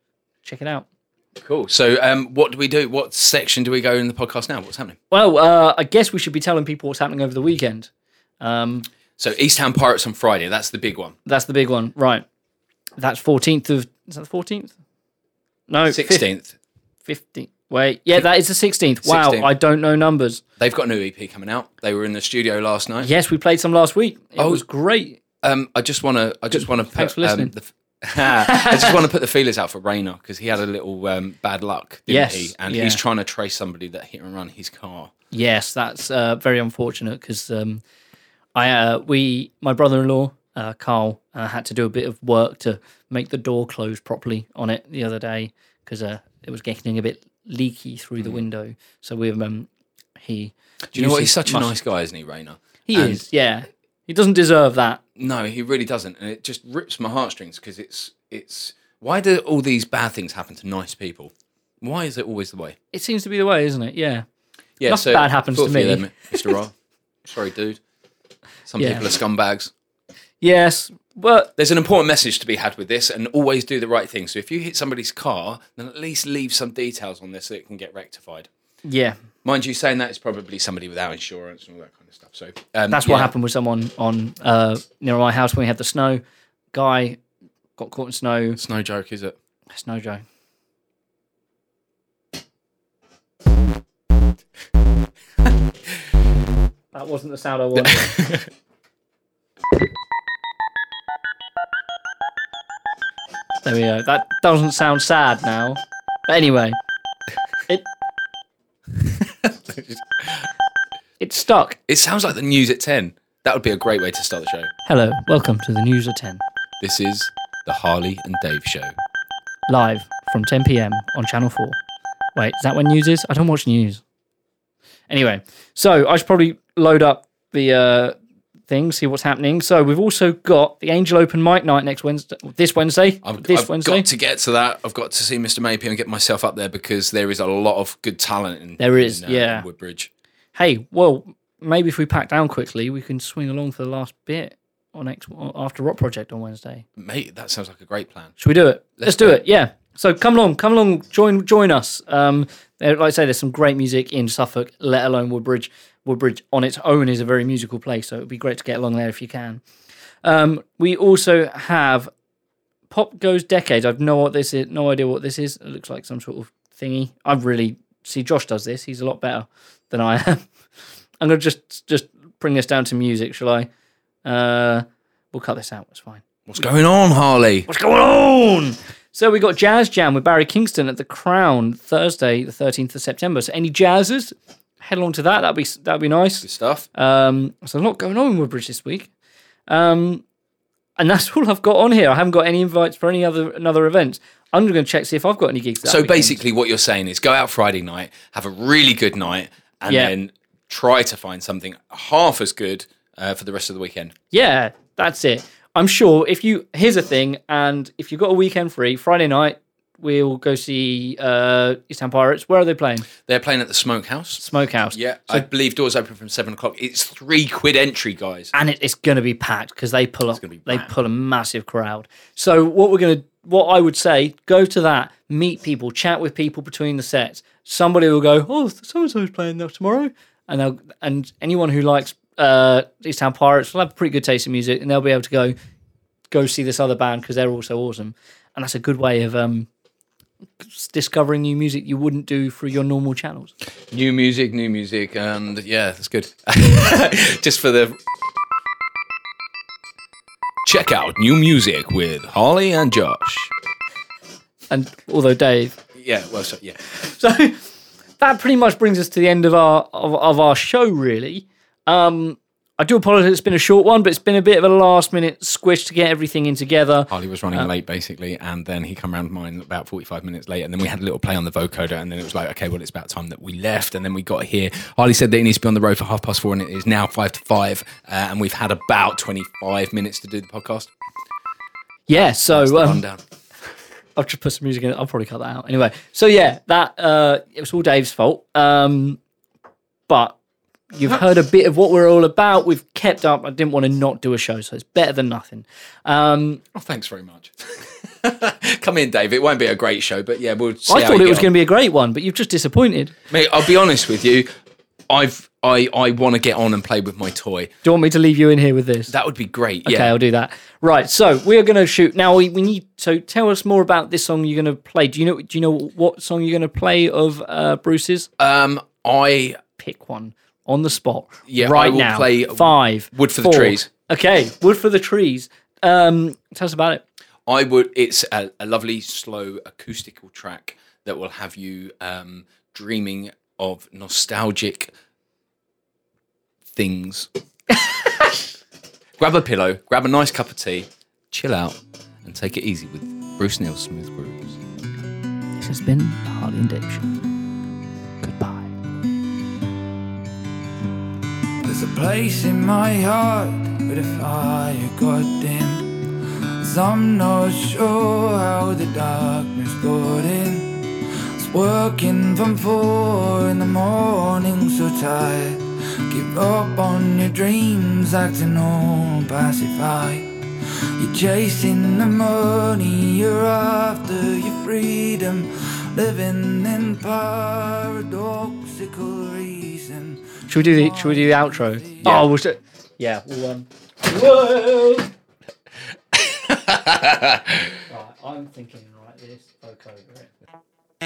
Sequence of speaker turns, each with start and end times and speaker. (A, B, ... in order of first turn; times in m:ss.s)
0:00.4-0:00.8 A
0:01.4-0:05.0 B
0:05.1-0:08.9 A
0:09.2-0:11.2 B
0:11.2-0:12.2 A
0:13.0-0:14.7 A
0:15.7-0:16.2 A
0:15.9-0:16.5 B
0:17.1-0:20.4 A
0:19.0-0:19.5 B
0:20.6-0:23.1 B
0:23.0-0:25.2 A
0:24.4-0:24.6 B
0:25.4-0:35.1 B
0:26.5-0:27.5 A
0:28.4-0:28.9 A
0:32.1-0:33.0 A
0:35.3-0:37.8 A
0:38.5-0:51.7 A
0:50.9-0:53.2 B
0:52.9-0:55.0 A
0:55.2-1:01.3 B
1:01.8-1:02.8 B
1:02.9-1:04.2 A
1:04.8-1:06.7 B
1:04.8-1:06.6 A
1:07.2-1:07.8 B
1:08.7-1:09.7 B
1:08.8-1:09.0 A
1:10.4-1:11.5 A
1:11.6-1:18.5 B
1:18.8-1:19.2 A
1:19.4-1:23.3 B
1:22.9-1:26.2 A
1:26.7-1:27.2 A
1:27.8-1:28.6 A
1:28.6-1:29.3 B
1:29.7-1:30.2 A
1:36.9-1:38.2 A
1:37.9-1:38.4 B
1:43.6-1:46.8 A
1:49.0-1:50.5 B
1:51.2-1:51.8 A
1:51.9-1:54.7 B
1:54.8-1:56.4 A
1:56.8-1:58.9 B
1:59.7-2:01.8 A
2:02.4-2:04.0 A
2:05.1-2:08.2 A
2:08.7-2:14.0 A
2:13.2-2:20.1 B
2:18.8-2:19.6 A
2:20.5-2:26.8 A
2:27.0-2:28.4 B
2:28.4-2:39.6 A
2:29.0-2:29.4 B
2:40.2-2:42.1 A
2:42.9-2:50.4 A
2:51.2-2:53.7 A
2:54.2-2:56.2 A
2:56.5-2:57.7 B
2:57.7-3:09.1 A
3:06.4-3:06.9 B
3:09.7-3:10.2 A
3:11.0-3:16.4 A
3:15.8-3:24.1 B
3:24.3-3:33.1 A
3:33.2-3:38.5 B
3:34.4-3:35.4 A
3:38.5-3:55.5 A
3:40.4-3:40.9 B
3:56.3-3:59.7 A
4:00.6-4:03.5 A
4:03.9-4:08.0 B
4:10.6-4:13.5 B
4:14.7-4:15.8 A
4:15.9-4:16.8 B
4:17.0-4:17.6 A
4:18.2-4:27.7 A
4:27.1-4:40.9 B
4:42.1-4:43.0 A
4:42.1-4:43.2 B
4:44.2-4:49.2 A
4:50.1-4:50.4 A
4:50.9-4:56.6 A
4:56.7-5:01.5 B
5:00.9-5:03.1 A
5:03.3-5:04.5 B
5:05.1-5:07.7 B
5:07.8-5:09.1 A
5:09.1-5:10.2 B
5:09.8-5:18.3 A
5:18.4-5:19.6 B
5:19.8-5:27.0 A
5:21.5-5:23.9 B
5:27.5-5:34.9 B
5:36.7-5:37.3 B
5:39.2-5:44.6 B
5:45.6-5:47.1 A
5:48.2-5:48.7 A
5:51.6-5:56.0 C
5:56.6-6:00.8 C
6:01.4-6:10.3 C
6:11.0-6:22.2 C
6:20.5-6:25.1 A
6:26.1-6:27.6 B
6:27.9-6:30.3 A